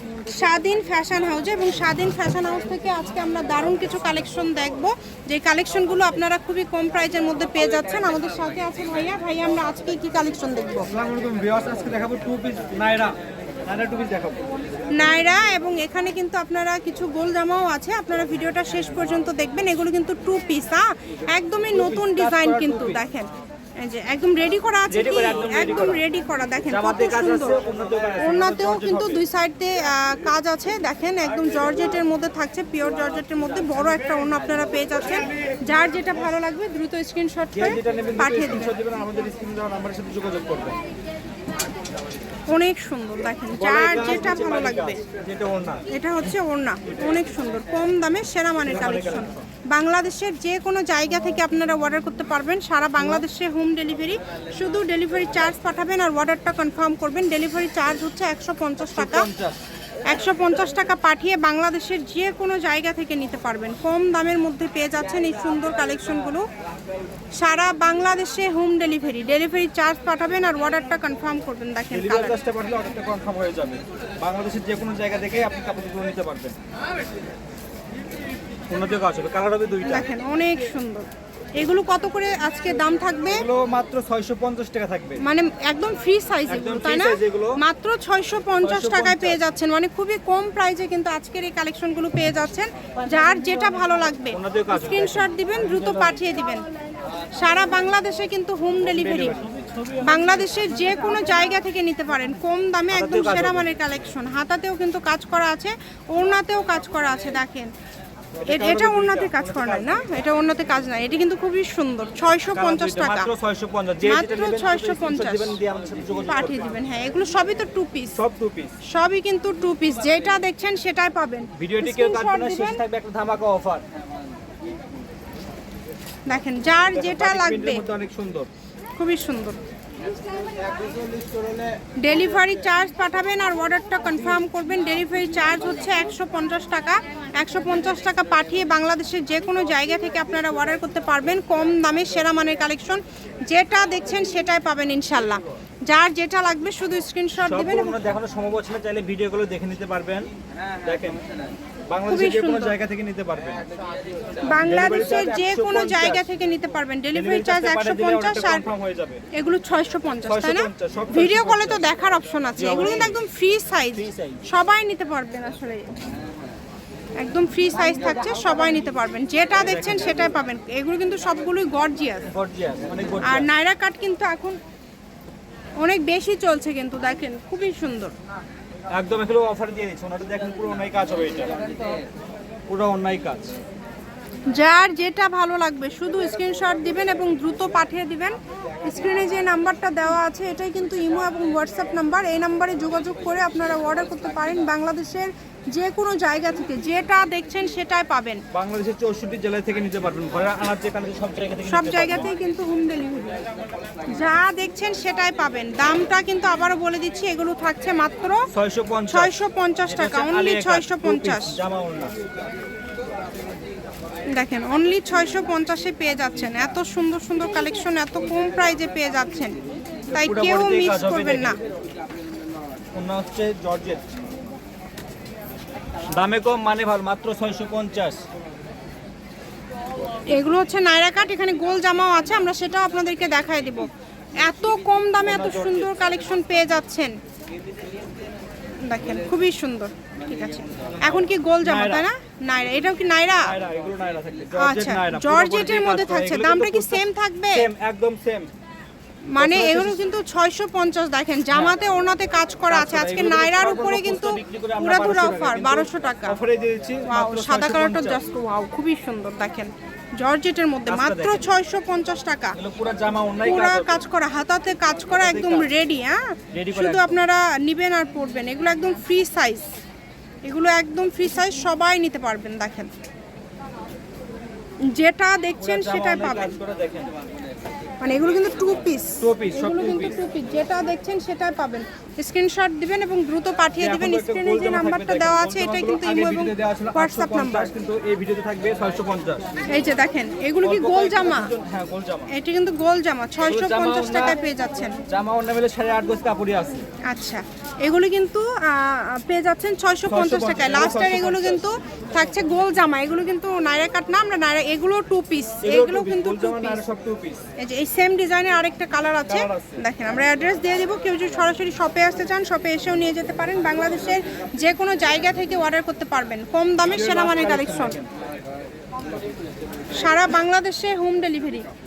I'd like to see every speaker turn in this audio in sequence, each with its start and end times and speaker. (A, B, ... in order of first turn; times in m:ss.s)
0:00.3-0:10.9 A
0:10.9-0:14.5 B
0:14.9-0:27.6 A
0:21.7-0:23.0 B
0:24.9-0:26.0 B
0:26.7-0:29.2 B
0:28.2-0:38.7 A
0:37.5-0:40.8 B
0:42.5-0:45.0 A
0:43.5-0:45.8 B
0:45.9-0:59.3 A
0:48.6-0:49.4 B
0:53.0-0:53.2 B
0:58.9-0:59.6 B
1:00.1-1:06.5 A
1:07.4-1:12.4 A
1:11.9-1:16.6 B
1:18.7-1:20.1 B
1:19.8-1:23.4 A
1:23.3-1:25.2 B
1:25.2-1:36.6 A
1:26.5-1:27.6 B
1:28.6-1:29.4 B
1:34.3-1:36.2 B
1:37.4-1:39.4 A
1:38.8-1:39.5 B
1:40.0-1:47.7 A
1:42.9-1:43.7 B
1:48.4-1:50.0 B
1:48.5-1:53.3 A
1:52.5-1:56.7 B
1:54.0-1:55.6 A
1:56.3-1:58.2 A
1:58.2-1:58.8 B
1:58.8-2:02.8 A
2:01.6-2:03.8 B
2:06.3-2:07.8 A
2:06.9-2:08.5 B
2:09.0-2:09.6 A
2:12.0-2:28.0 A
2:27.4-2:30.3 B
2:30.8-2:31.2 B
2:31.9-2:33.6 B
2:32.1-2:32.8 A
2:34.5-2:38.6 A
2:34.6-2:36.3 B
2:37.1-2:39.2 B
2:39.3-2:45.9 A
2:40.3-2:41.9 B
2:42.6-2:43.2 B
2:44.0-2:44.4 B
2:47.2-2:52.3 A
2:49.6-2:50.4 B
2:52.3-2:53.5 B
2:53.2-2:54.6 A
2:55.8-2:58.1 A
2:58.9-3:01.6 B
3:02.7-3:03.5 B
3:04.5-3:18.4 A
3:18.5-3:22.3 B
3:21.6-3:23.4 A
3:24.1-3:28.5 A
3:28.5-3:29.3 B
3:29.1-3:31.6 A
3:29.9-3:32.1 B
3:34.3-3:39.6 A
3:40.1-3:41.6 A
3:40.1-3:41.6 B
3:42.9-3:44.1 B
3:46.1-3:48.2 B
3:50.3-3:53.9 A
3:54.4-3:57.1 A
3:55.2-3:55.9 B
3:58.8-4:03.6 A
4:01.6-4:02.1 B
4:03.4-4:08.5 B
4:04.6-4:07.7 A
4:09.3-4:16.4 A
4:09.4-4:10.1 B
4:11.5-4:11.8 B
4:12.7-4:18.2 B
4:17.1-4:22.6 A
4:20.9-4:21.5 B
4:22.5-4:24.0 B
4:23.4-4:29.7 A
4:25.1-4:25.7 B
4:26.5-4:27.2 B
4:30.4-4:32.9 A
4:34.9-4:36.5 A
4:35.6-4:37.2 B
4:38.0-4:47.7 A
4:39.2-4:40.2 B
4:43.8-4:49.4 B
4:49.7-4:51.5 A
4:50.6-4:52.3 B
4:52.3-4:55.0 A
4:53.4-4:54.4 B
4:55.1-4:56.8 B
4:57.0-5:06.8 A
5:00.1-5:01.7 B
5:05.6-5:07.4 B
5:07.6-5:18.0 A
5:09.2-5:09.8 B
5:16.8-5:18.1 B
5:20.0-5:21.7 A